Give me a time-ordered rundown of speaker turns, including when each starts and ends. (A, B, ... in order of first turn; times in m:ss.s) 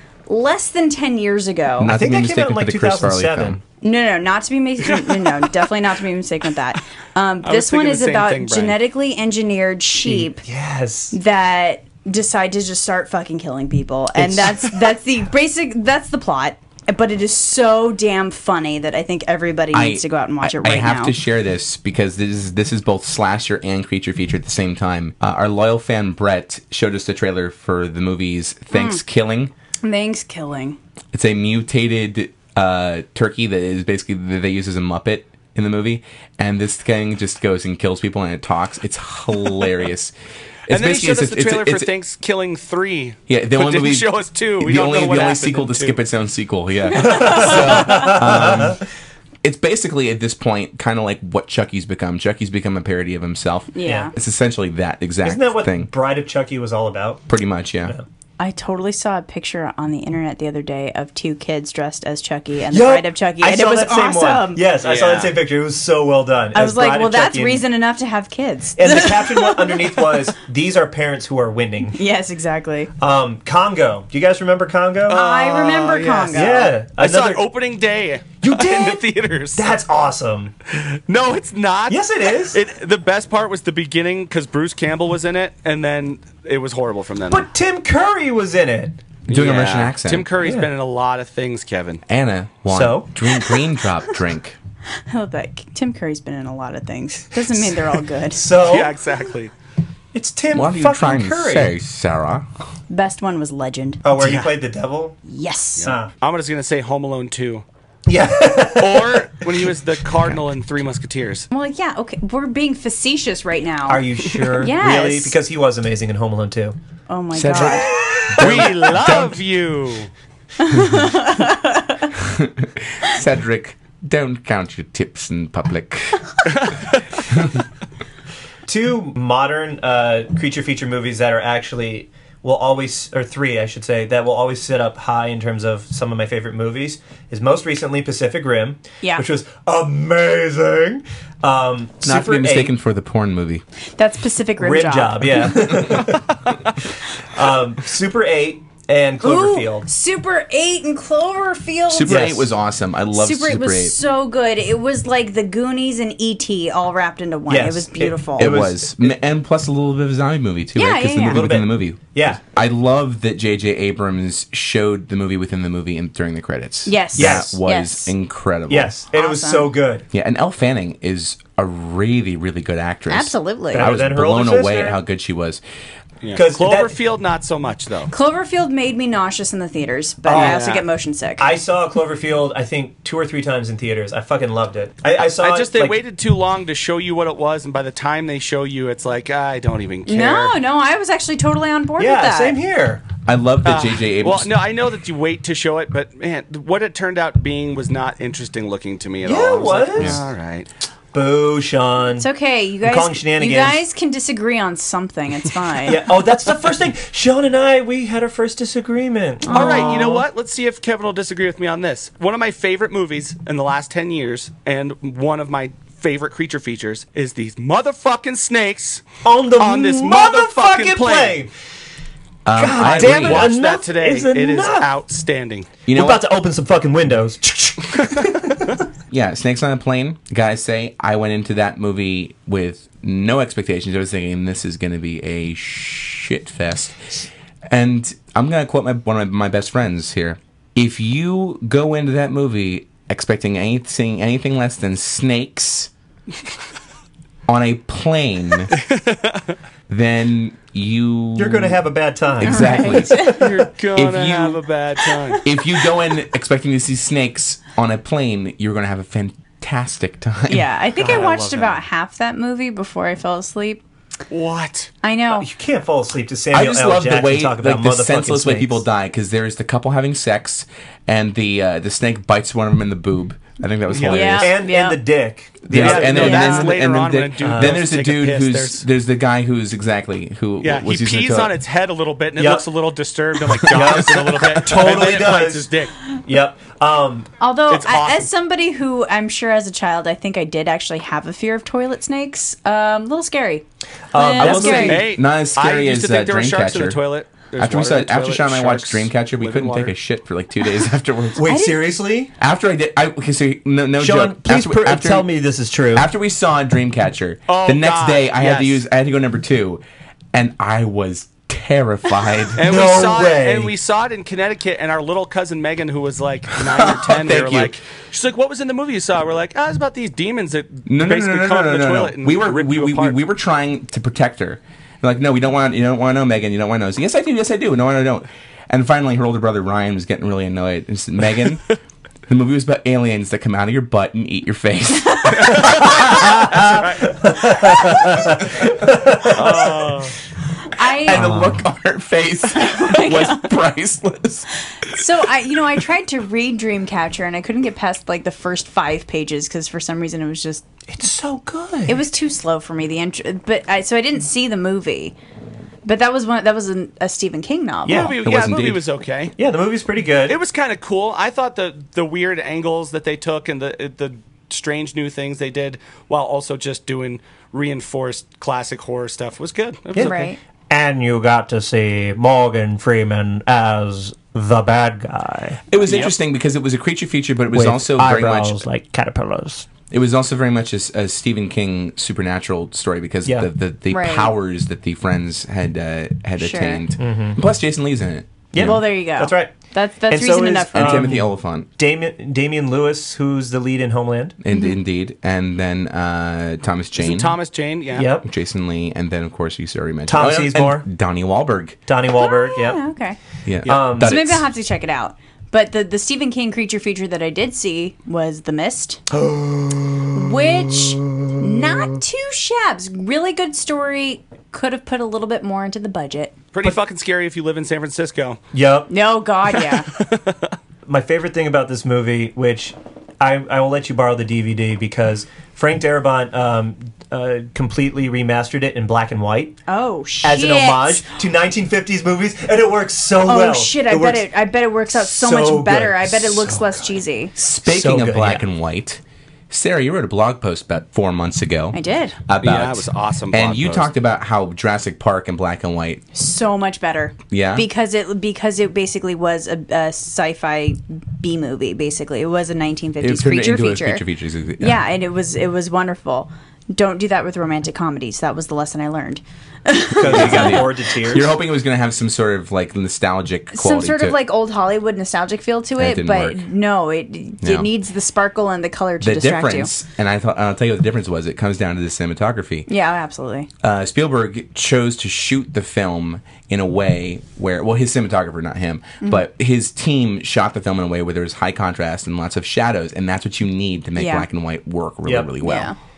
0:00.3-0:01.9 A
0:01.8-0:03.6 B
0:01.9-0:03.6 C
0:03.8-0:10.4 A
0:07.4-0:08.8 D
0:10.0-0:11.1 C
0:11.1-0:21.2 A
0:19.7-0:29.5 B
0:28.7-0:29.0 A
0:29.8-0:30.8 A
0:31.1-0:40.1 B
0:40.7-0:41.9 B
0:40.7-0:46.0 D
0:43.3-0:48.8 B
0:46.9-0:48.2 A
0:47.0-0:48.8 C
0:49.4-0:55.9 B
0:53.7-0:54.1 A
0:53.8-0:54.1 C
0:55.2-0:57.2 C
0:57.3-0:58.0 B
0:58.4-1:04.7 A
1:02.7-1:07.6 C
1:04.8-1:05.4 D
1:06.5-1:10.3 A
1:08.8-1:12.0 C
1:11.9-1:12.9 A
1:13.0-1:15.2 C
1:15.1-1:19.8 D
1:15.1-1:16.8 A
1:16.3-1:17.4 C
1:18.4-1:19.0 C
1:19.5-1:20.5 C
1:20.7-1:27.4 D
1:21.9-1:22.6 C
1:27.3-1:29.0 C
1:29.3-1:30.3 B
1:29.3-1:32.0 D
1:30.4-1:30.7 C
1:32.1-1:34.6 B
1:32.7-1:33.1 C
1:35.1-1:38.4 A
1:38.3-1:38.9 C
1:38.5-1:39.5 D
1:40.1-1:41.7 C
1:40.5-1:42.4 B
1:42.9-1:44.4 A
1:44.0-1:45.2 C
1:45.2-1:45.9 A
1:45.8-1:47.6 D
1:45.8-1:46.1 C
1:48.1-1:49.4 C
1:48.8-1:51.5 D
1:51.5-1:55.4 A
1:53.9-1:56.8 C
1:57.1-1:57.9 A
1:57.3-1:59.4 B
1:58.3-2:00.1 D
2:00.6-2:02.1 A
2:02.2-2:06.4 B
2:06.5-2:07.0 D
2:08.6-2:22.7 C
2:22.0-2:23.6 B
2:24.0-2:25.8 A
2:24.6-2:26.4 C
2:27.2-2:29.9 C
2:29.2-2:32.4 A
2:31.9-2:34.0 B
2:32.0-2:32.5 C
2:33.1-2:38.6 A
2:37.5-2:39.2 C
2:38.4-2:48.9 B
2:40.7-2:41.5 A
2:41.2-2:42.4 C
2:46.8-2:48.1 A
2:47.2-2:47.5 C
2:48.7-2:50.0 C
2:49.1-2:49.7 A
2:50.1-2:55.6 B
2:53.1-2:53.9 A
2:53.7-2:55.0 C
2:56.2-2:58.1 D
2:56.3-2:57.0 C
2:58.1-3:01.5 A
3:00.2-3:00.6 C
3:00.3-3:00.8 D
3:01.4-3:06.0 C
3:05.2-3:10.6 D
3:10.0-3:12.6 A
3:12.0-3:13.0 C
3:13.2-3:14.5 B
3:13.6-3:20.7 D
3:19.2-3:20.2 C
3:20.0-3:20.2 B
3:21.1-3:22.3 C
3:22.2-3:26.1 A
3:22.8-3:23.8 C
3:25.8-3:30.2 C
3:29.4-3:30.2 A
3:29.5-3:39.0 D
3:39.2-3:41.5 C
3:39.6-3:41.4 D
3:42.4-3:43.5 B
3:42.6-3:44.8 C
3:42.6-3:45.8 D
3:45.9-3:46.2 B
3:45.9-3:48.7 C
3:49.1-4:05.9 B
4:07.5-4:08.7 B
4:08.8-4:09.4 D
4:09.9-4:11.8 B
4:11.4-4:13.6 C
4:12.3-4:14.6 B
4:12.4-4:13.4 A
4:13.3-4:15.4 D
4:15.4-4:20.7 B
4:20.5-4:23.8 A
4:21.0-4:21.8 C
4:24.3-4:24.9 D
4:25.0-4:25.5 A
4:25.3-4:28.8 C
4:26.5-4:34.6 B
4:33.9-4:34.3 D
4:34.1-4:35.0 A
4:34.3-4:36.4 C
4:35.7-4:41.5 B
4:35.7-4:38.8 D
4:36.1-4:36.8 A
4:37.4-4:37.8 C
4:40.6-4:45.9 D
4:42.4-4:42.6 C
4:43.7-4:45.7 C
4:46.2-4:47.3 C
4:47.4-4:55.0 A
4:47.7-4:48.3 D
4:54.1-4:55.1 C
4:54.4-4:57.0 B
4:54.8-4:59.9 D
4:57.6-5:01.5 B
5:01.4-5:02.3 C
5:01.4-5:01.9 A
5:02.4-5:05.3 B
5:04.0-5:06.1 C
5:05.9-5:12.6 B
5:07.5-5:08.8 D
5:12.5-5:23.2 D
5:12.6-5:13.7 C
5:16.6-5:17.8 B
5:20.9-5:31.7 B
5:32.3-5:36.5 B
5:35.3-5:37.2 D
5:36.5-5:39.9 C
5:37.7-5:38.0 D
5:39.3-5:40.1 D
5:40.7-5:41.3 A
5:40.9-5:44.5 B
5:41.1-5:41.6 C
5:42.5-5:43.5 A
5:44.9-5:50.6 A
5:50.9-5:52.0 C
5:51.9-5:55.1 A
5:55.8-5:58.1 A
5:57.8-5:58.2 C
5:57.9-5:59.3 D
5:58.2-5:58.8 B
5:59.4-6:00.4 C
6:00.3-6:10.1 D
6:09.9-6:15.6 C
6:10.0-6:10.4 A
6:15.7-6:18.6 B
6:15.8-6:16.1 D
6:17.5-6:19.7 C
6:19.9-6:28.8 B
6:23.9-6:24.3 A
6:26.4-6:26.8 A
6:27.0-6:27.4 C
6:28.5-6:29.5 C
6:28.6-6:31.2 A
6:30.1-6:34.4 C
6:30.7-6:31.7 B
6:34.4-6:37.4 B
6:34.5-6:34.8 A
6:37.0-6:38.1 D
6:37.9-6:38.2 C
6:38.2-6:41.8 B
6:40.1-6:40.8 C
6:41.9-6:42.8 C
6:42.1-6:43.2 A
6:43.4-6:44.5 B
6:43.6-6:44.2 C
6:43.9-6:49.0 A
6:49.1-6:51.7 C
6:50.1-6:56.3 A
6:56.5-6:58.4 D
6:58.5-6:58.9 C
6:58.9-6:59.9 A
6:59.6-7:00.5 D
7:00.9-7:09.6 C
7:09.7-7:11.0 A
7:10.2-7:14.3 C
7:13.2-7:17.3 A
7:14.9-7:16.9 C
7:17.4-7:26.0 B
7:17.6-7:18.4 C
7:21.7-7:22.2 A
7:22.4-7:23.9 D
7:26.1-7:34.0 A
7:27.3-7:27.6 B
7:33.0-7:34.8 B
7:34.6-7:40.7 A
7:39.9-7:41.3 C
7:40.0-7:44.2 B
7:43.5-7:49.7 A
7:45.8-7:46.4 B
7:47.4-7:47.7 B
7:49.0-7:52.7 B
7:52.7-7:53.5 A
7:53.6-8:05.7 B
8:03.9-8:04.3 A
8:05.0-8:05.3 C
8:05.4-8:05.8 A